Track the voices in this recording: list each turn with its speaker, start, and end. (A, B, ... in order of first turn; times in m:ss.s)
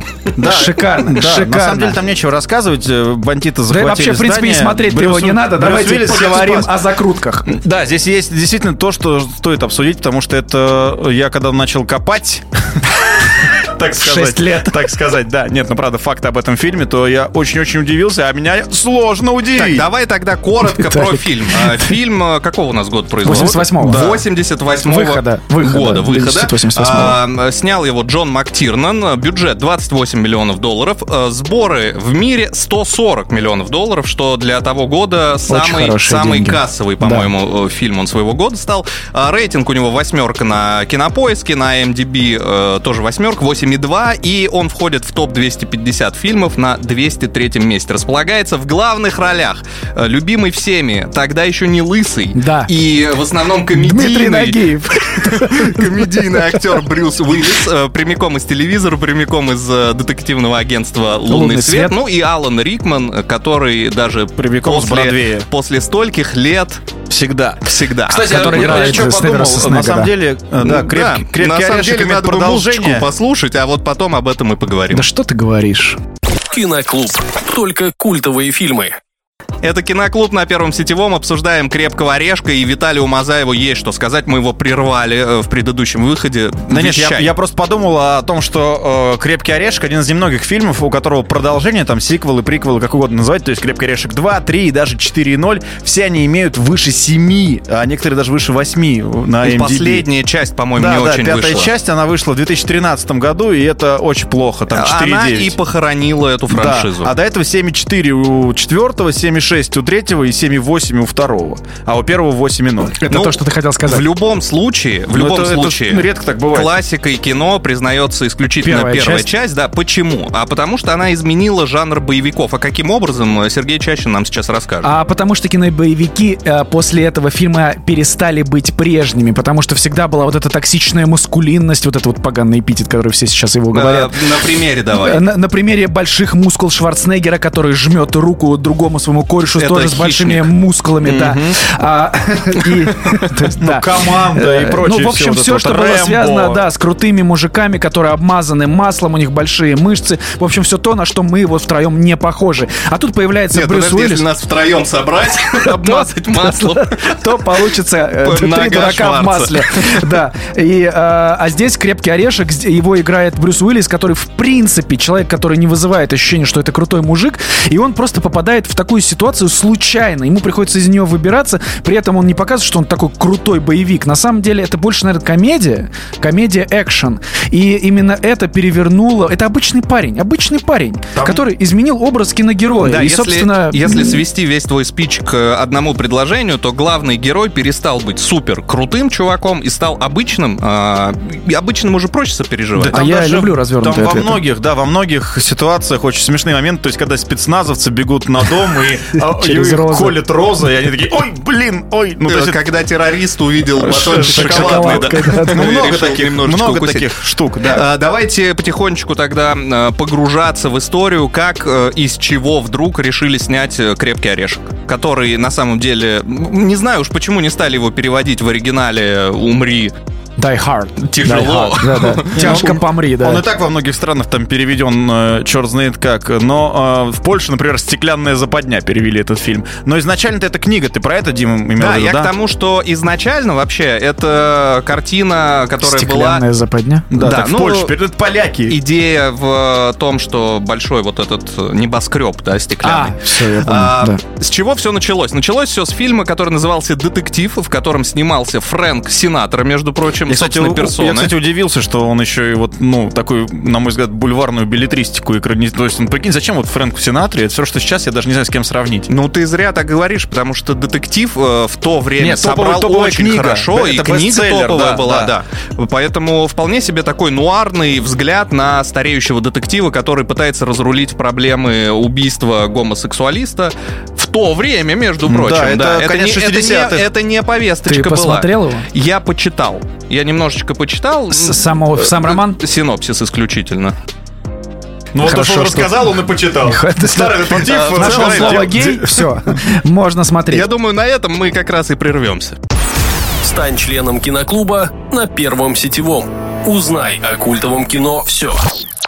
0:00.4-0:06.8 A
0:00.4-0:02.0 B
0:03.7-0:07.5 B
0:07.4-0:19.9 A
0:13.9-0:14.8 B
0:19.5-1:06.8 C
0:20.7-0:21.9 B
0:23.2-0:24.0 B
0:23.3-0:24.2 A
0:24.8-0:27.2 B
0:35.5-0:37.3 B
0:52.3-0:52.7 B
0:53.7-0:56.6 B
1:01.3-1:01.9 B
1:04.4-1:05.5 A
1:07.1-1:13.1 A
1:07.6-1:09.1 C
1:08.1-1:10.1 B
1:10.6-1:15.0 C
1:14.9-1:16.0 B
1:16.5-1:19.0 D
1:19.6-1:27.3 C
1:26.7-1:40.0 A
1:39.4-1:41.7 C
1:40.8-1:45.6 A
1:44.7-1:47.1 C
1:46.5-1:53.0 A
1:53.0-1:54.0 B
1:53.1-2:04.9 C
1:55.1-1:56.7 A
1:58.6-1:59.3 B
2:04.8-2:34.2 B
2:13.7-2:15.2 C
2:19.5-2:20.5 C
2:21.0-2:21.5 C
2:23.6-2:26.6 A
2:33.5-2:37.6 C
2:35.6-3:04.2 B
2:38.2-2:40.1 C
3:02.8-3:13.0 C
3:12.7-3:22.6 A
3:12.9-3:14.4 B
3:19.2-3:20.2 B
3:22.3-3:39.9 C
3:23.8-3:27.8 A
3:23.9-3:25.6 B
3:40.4-3:43.4 B
3:41.0-3:42.8 C
3:42.3-3:52.3 A
3:51.8-3:56.4 C
3:55.8-3:57.1 B
3:57.1-3:58.8 A
3:57.1-3:57.9 C
3:58.7-4:11.3 C
4:02.8-4:04.2 B
4:10.2-4:19.1 A
4:19.1-4:43.9 C
4:22.2-4:25.3 A
4:35.3-4:37.1 A
4:37.8-4:38.9 B
4:41.3-4:42.6 B
4:45.1-4:49.3 A
4:45.2-4:46.1 B
4:46.6-4:50.6 B
4:47.5-4:48.7 C
4:50.5-4:52.6 C
4:53.4-4:58.7 D